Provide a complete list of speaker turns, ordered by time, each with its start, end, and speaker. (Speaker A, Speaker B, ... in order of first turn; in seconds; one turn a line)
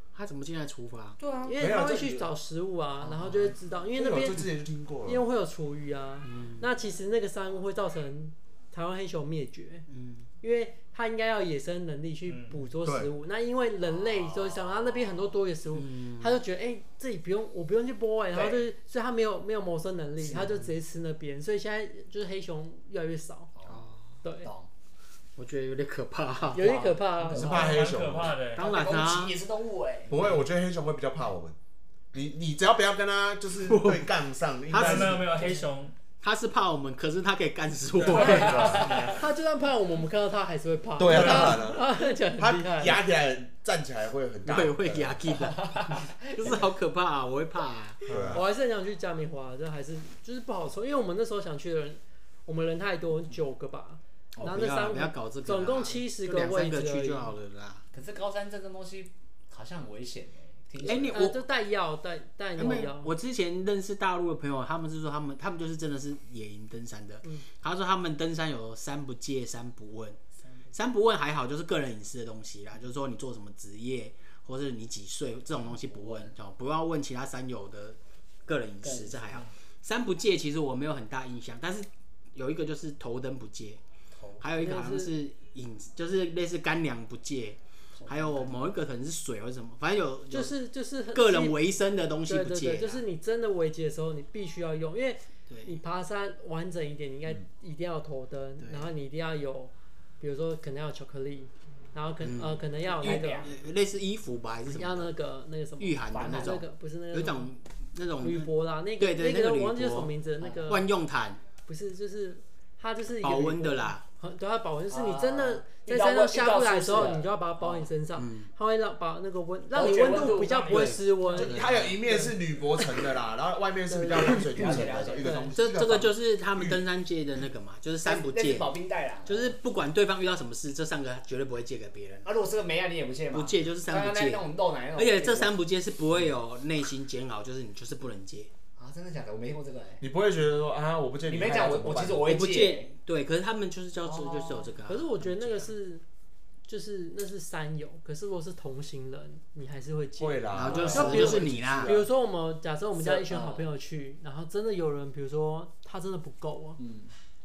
Speaker A: 0.1-1.2
Speaker B: 1.2-1.5
Speaker C: 1.4-4.5
Speaker D: 1.6-2.3
Speaker A: 3.0-3.5
Speaker D: 4.0-5.2
Speaker C: 5.0-9.9
Speaker A: 6.2-6.7
Speaker A: 9.9-10.3
Speaker C: 10.4-23.5
Speaker E: 12.3-12.6
Speaker D: 12.8-13.1
Speaker B: 14.1-15.1
Speaker A: 15.8-16.4
Speaker B: 18.3-18.6
Speaker A: 20.3-20.7
Speaker B: 23.6-24.7
Speaker A: 23.7-24.0
Speaker C: 24.2-24.5
Speaker A: 25.4-27.0
Speaker C: 26.5-27.7
Speaker B: 27.3-27.8
Speaker D: 27.3-28.4
Speaker E: 27.4-28.6
Speaker A: 28.6-29.4
Speaker B: 28.6-30.3
Speaker D: 30.1-31.6
Speaker D: 32.1-35.4
Speaker A: 33.6-34.1
Speaker A: 34.7-35.5
Speaker E: 34.7-36.0
Speaker A: 36.2-38.9
Speaker E: 38.0-39.2
Speaker B: 38.1-39.1
Speaker C: 38.2-43.0
Speaker D: 38.4-38.9
Speaker D: 41.0-45.2
Speaker A: 44.5-48.2
Speaker B: 45.3-46.7
Speaker D: 48.1-48.5
Speaker E: 48.1-48.4
Speaker C: 48.3-57.4
Speaker A: 54.4-57.8
Speaker B: 57.9-61.2
Speaker A: 60.8-61.4
Speaker C: 60.9-63.1
Speaker A: 62.6-70.2
Speaker A: 70.7-83.8
Speaker B: 75.9-76.3
Speaker B: 78.8-79.4
Speaker B: 84.2-84.4
Speaker A: 84.4-90.6
Speaker C: 84.6-85.2
Speaker B: 88.0-88.5
Speaker C: 90.3-91.6
Speaker A: 91.1-93.0
Speaker C: 92.3-103.5
Speaker A: 95.5-95.8
Speaker A: 98.6-98.9
Speaker A: 102.2-105.1
Speaker B: 103.0-103.5
Speaker C: 104.7-107.5
Speaker A: 105.8-110.1
Speaker B: 106.1-106.6
Speaker C: 108.2-110.9
Speaker A: 110.7-111.4
Speaker C: 111.6-122.3
Speaker A: 113.2-114.0
Speaker B: 114.9-117.9
Speaker A: 118.2-118.5
Speaker B: 119.7-120.7
Speaker E: 120.0-121.6
Speaker A: 120.7-121.9
Speaker D: 121.4-126.8
Speaker C: 123.9-125.5
Speaker B: 124.3-125.5
Speaker A: 125.5-128.8
Speaker B: 128.0-129.6
Speaker A: 129.3-132.3
Speaker B: 132.2-135.6
Speaker A: 133.3-138.5
Speaker B: 138.8-140.1
Speaker D: 140.0-142.3
Speaker B: 141.3-142.9
Speaker A: 142.2-145.4
Speaker B: 144.0-144.8
Speaker C: 144.9-146.0
Speaker C: 146.7-156.8
Speaker D: 150.2-152.1
Speaker A: 150.5-152.0
Speaker B: 153.0-153.7
Speaker B: 156.8-157.1